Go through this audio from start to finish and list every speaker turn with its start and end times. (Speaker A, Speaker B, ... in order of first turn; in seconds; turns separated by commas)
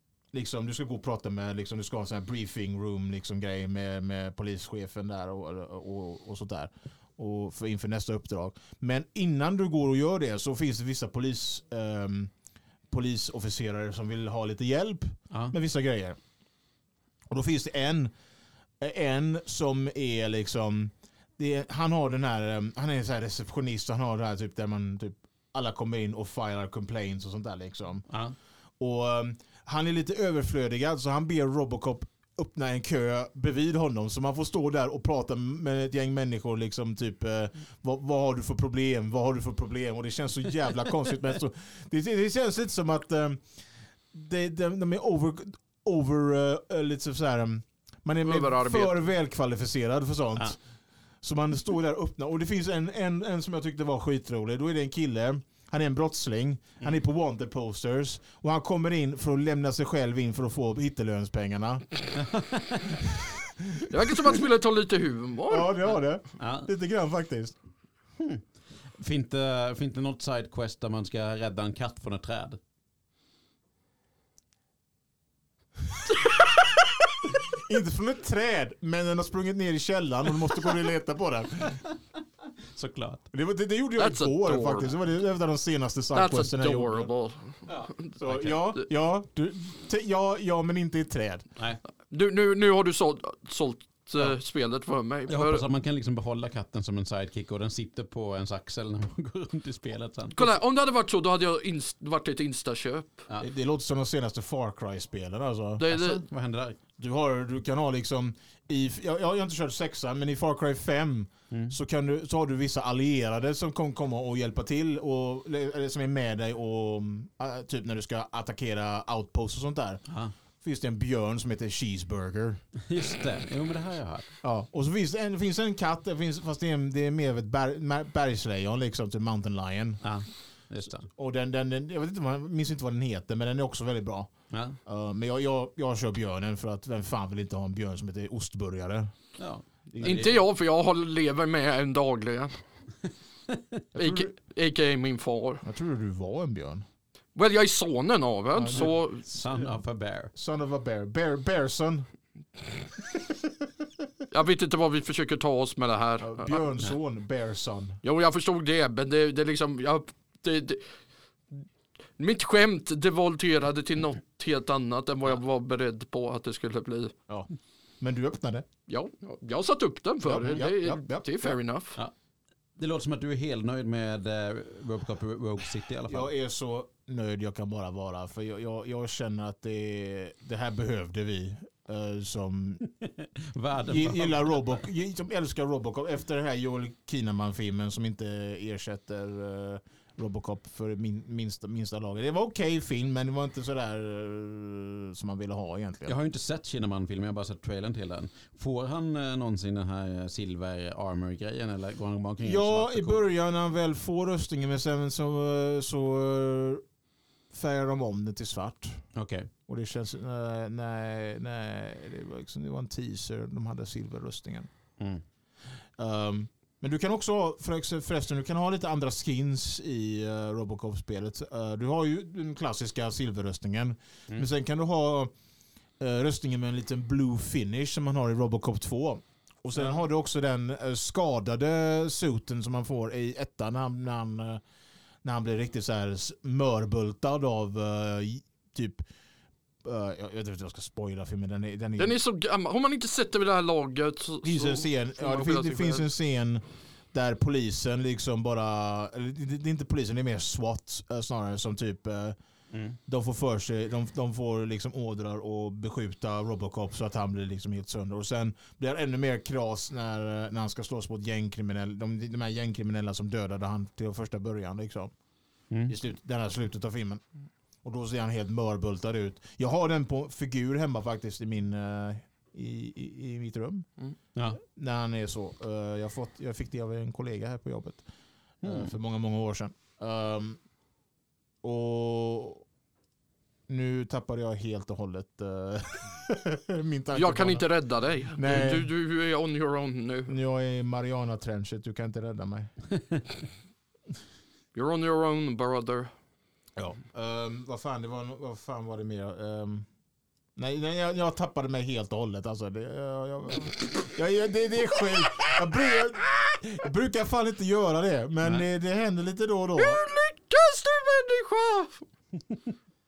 Speaker A: 0.3-12.3, Speaker A: 12.9-16.2, Speaker A: 17.3-18.1, Speaker A: 18.8-28.1, Speaker B: 28.1-28.4, Speaker A: 28.8-43.4, Speaker A: 44.1-50.6, Speaker C: 48.2-48.9, Speaker A: 51.2-61.9, Speaker B: 62.1-63.0, Speaker A: 63.0-64.3, Speaker C: 63.9-65.7, Speaker A: 65.5-67.5, Speaker B: 66.4-66.7, Speaker B: 68.2-68.4, Speaker B: 68.9-72.6, Speaker A: 77.5-81.8, Speaker B: 82.6-83.2, Speaker A: 83.3-87.1, Speaker C: 84.0-84.9, Speaker C: 86.1-88.1, Speaker B: 87.7-88.6, Speaker A: 88.2-91.4, Speaker C: 92.1-95.6, Speaker B: 95.3-100.6, Speaker C: 100.3-103.2, Speaker A: 103.4-105.9, Speaker C: 105.8-106.2, Speaker B: 105.9-106.8, Speaker A: 107.0-120.0, Speaker B: 120.1-120.3, Speaker A: 120.6-122.6, Speaker B: 122.8-124.3, Speaker A: 124.4-130.0, Speaker B: 130.0-131.1, Speaker A: 131.0-134.3, Speaker B: 134.5-134.8, Speaker A: 134.8-139.1, Speaker B: 139.4-140.4, Speaker A: 139.9-140.4, Speaker C: 140.0-142.6, Speaker B: 143.5-143.8, Speaker A: 143.9-144.3, Speaker C: 144.0-145.6, Speaker A: 145.6-146.8, Speaker C: 147.3-149.2, Speaker A: 148.5-148.9, Speaker B: 148.7-150.3, Speaker A: 150.3-152.1, Speaker A: 153.0-153.4, Speaker C: 154.3-156.7, Speaker A: 156.2-158.0, Speaker C: 158.0-160.8, Speaker C: 162.2-167.1, Speaker A: 168.0-168.7, Speaker C: 168.9-172.0, Speaker A: 170.2-171.5, Speaker B: 172.8-176.3, Speaker A: 176.1-182.8, Speaker B: 182.8-184.8, Speaker A: 183.9-196.1, Speaker B: 196.1-203.2, Speaker A: 202.4-206.8, Speaker A: 207.5-209.0, Speaker B: 209.1-209.5, Speaker A: 209.7-214.7, Speaker A: 216.0-225.3, Speaker A: 226.0-234.6, Speaker A: 235.2-239.0, Speaker A: 239.8-242.2, Speaker C: 242.0-246.0, Speaker A: 244.4-252.4, Speaker B: 252.7-253.0, Speaker A: 253.1-265.1, Speaker A: 265.9-267.2, Speaker A: 267.8-273.9, Speaker A: 274.6-278.0, Speaker B: 278.6-278.9, Speaker A: 278.6-280.6, Speaker A: 281.6-282.6, Speaker A: 283.7-287.7, Speaker C: 287.1-290.4, Speaker A: 288.3-288.9, Speaker A: 290.3-292.7, Speaker C: 294.7-296.1, Speaker A: 296.8-299.9, Speaker A: 300.6-310.0, Speaker C: 309.8-312.0